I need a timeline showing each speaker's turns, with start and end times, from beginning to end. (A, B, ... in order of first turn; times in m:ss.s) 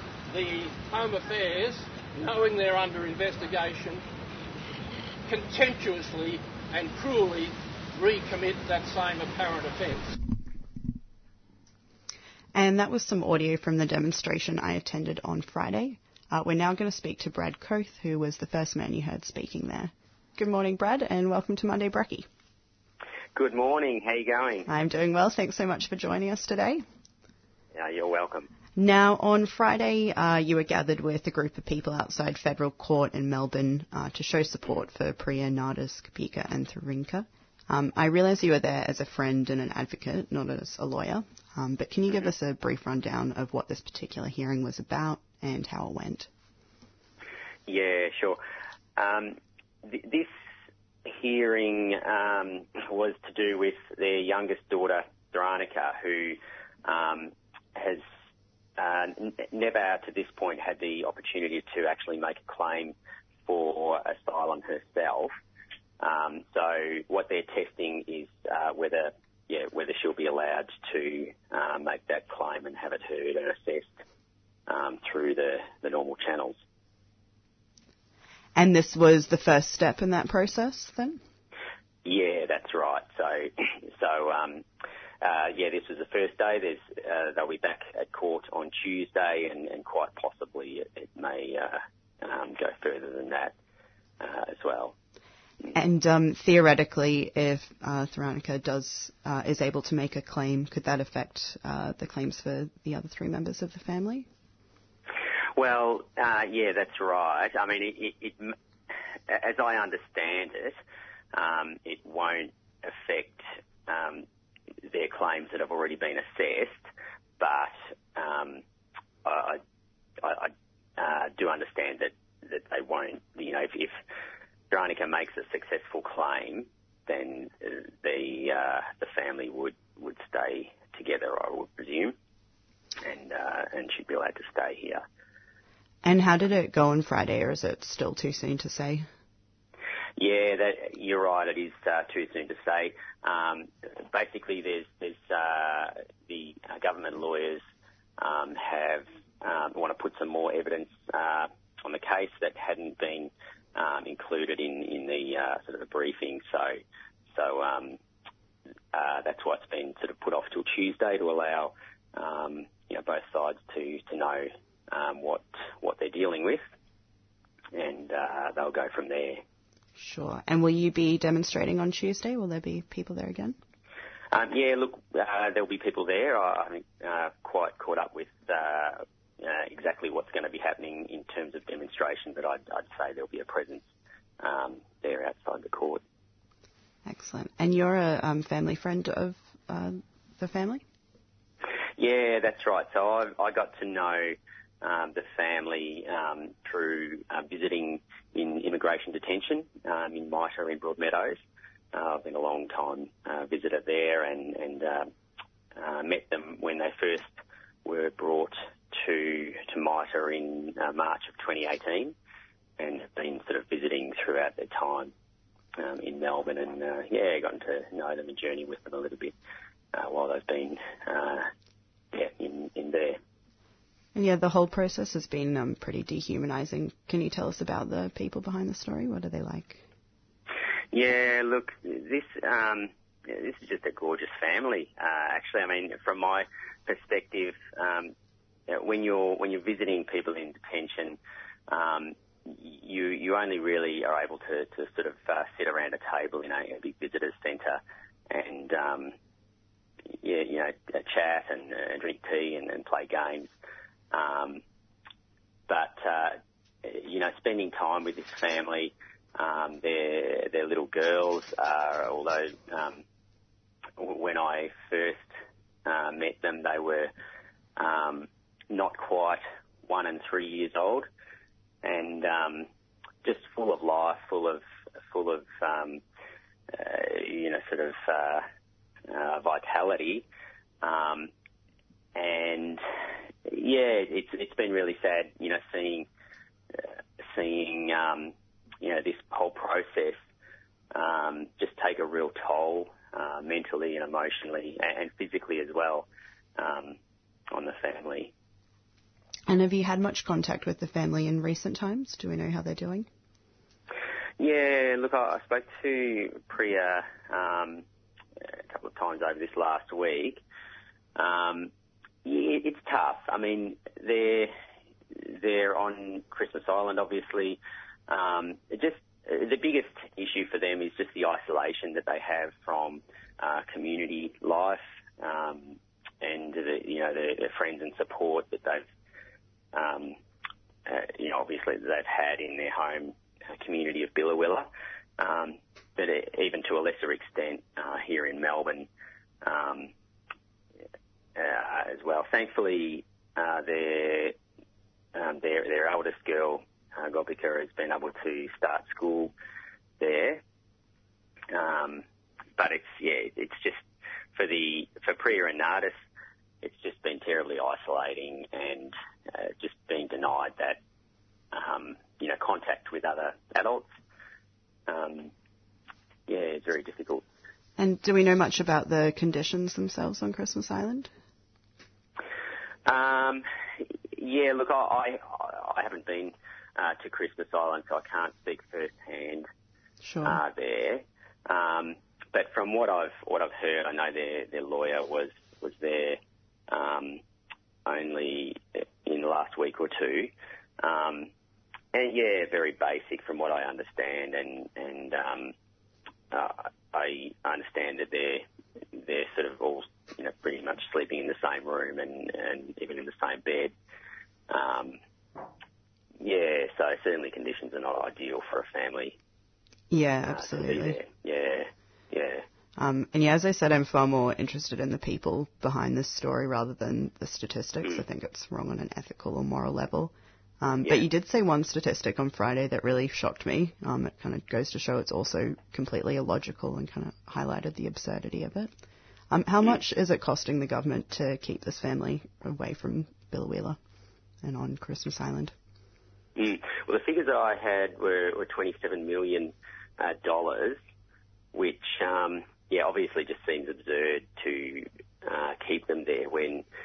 0:00.3-0:04.0 A
0:05.3-0:10.1 A
0:12.5-0:22.2 B
0:23.4-0:24.7 C
0:24.7-0:26.8 B
0:27.7-0:28.5 C
0:28.8-0:46.3 B
0:47.7-0:48.4 C
0:49.0-0:50.3 C
0:51.0-0:58.0 C
0:58.8-1:02.9 C
1:03.4-1:05.3 C
1:06.0-1:14.0 C
1:14.7-1:16.6 C
1:18.6-1:21.2 B
1:22.0-1:24.6 C
1:25.2-1:33.5 C
1:34.2-1:34.9 C
1:35.7-1:44.3 B
1:45.6-1:48.5 C
1:49.3-1:50.8 C
1:51.3-1:54.2 C
1:54.9-1:56.9 C
1:57.4-1:58.6 C
1:59.2-1:59.6 C
2:00.2-2:04.0 C
2:04.7-2:12.1 C
2:13.0-2:15.0 C
2:16.0-2:19.0 B
2:20.2-2:27.6 C
2:28.2-2:36.8 C
2:37.3-2:38.0 C
2:38.9-2:46.6 C
2:47.7-2:49.4 C
2:50.0-2:53.6 B
2:54.3-3:03.8 C
3:04.4-3:06.0 C
3:07.0-3:10.8 B
3:12.0-3:21.4 C
3:21.9-3:25.1 C
3:25.7-3:27.3 C
3:27.8-3:32.1 C
3:32.8-3:35.1 C
3:35.8-3:39.3 C
3:39.9-3:41.5 C
3:42.1-3:43.2 C
3:44.1-3:49.8 B
3:50.9-3:58.1 C
3:58.7-4:09.1 C
4:10.2-4:13.5 C
4:14.1-4:14.6 C
4:15.7-4:23.0 C
4:24.0-4:25.3 C
4:25.8-4:27.1 C
4:27.8-4:31.1 C
4:31.8-4:32.7 C
4:33.2-4:36.0 C
4:36.7-4:38.4 C
4:39.1-4:40.2 C
4:40.8-4:41.3 C
4:42.1-4:42.8 C
4:43.5-4:46.1 C
4:47.2-4:50.2 C
4:50.9-4:56.1 C
4:56.6-4:57.0 C
4:57.5-4:58.3 C
4:59.5-5:03.1 B
5:04.4-5:07.8 C
5:08.7-5:10.4 C
5:11.2-5:11.7 C
5:12.2-5:14.5 C
5:15.2-5:28.8 C
5:29.7-5:30.2 C
5:30.8-5:38.9 C
5:39.4-5:39.9 C
5:41.4-5:44.3 C
5:45.1-5:49.3 C
5:50.0-5:50.4 C
5:51.5-5:52.0 C
5:52.6-5:53.8 C
5:54.3-5:56.0 C
5:56.6-6:00.8 C
6:01.5-6:03.9 C
6:04.9-6:05.3 C
6:06.3-6:07.2 C
6:07.8-6:11.1 B
6:12.8-6:13.4 C
6:14.2-6:19.5 C
6:20.0-6:20.4 B
6:20.2-6:26.2 C
6:26.7-6:27.2 C
6:27.8-6:31.3 C
6:31.9-6:35.5 C
6:36.3-6:38.4 C
6:38.9-6:43.7 C
6:44.5-6:45.0 C
6:46.2-6:49.2 C
6:49.9-6:51.0 B
6:50.2-6:52.4 C
6:52.8-7:08.7 B
7:00.8-7:01.1 C
7:09.3-7:13.8 B
7:14.4-7:15.5 B
7:16.4-7:20.8 C
7:21.5-7:26.6 C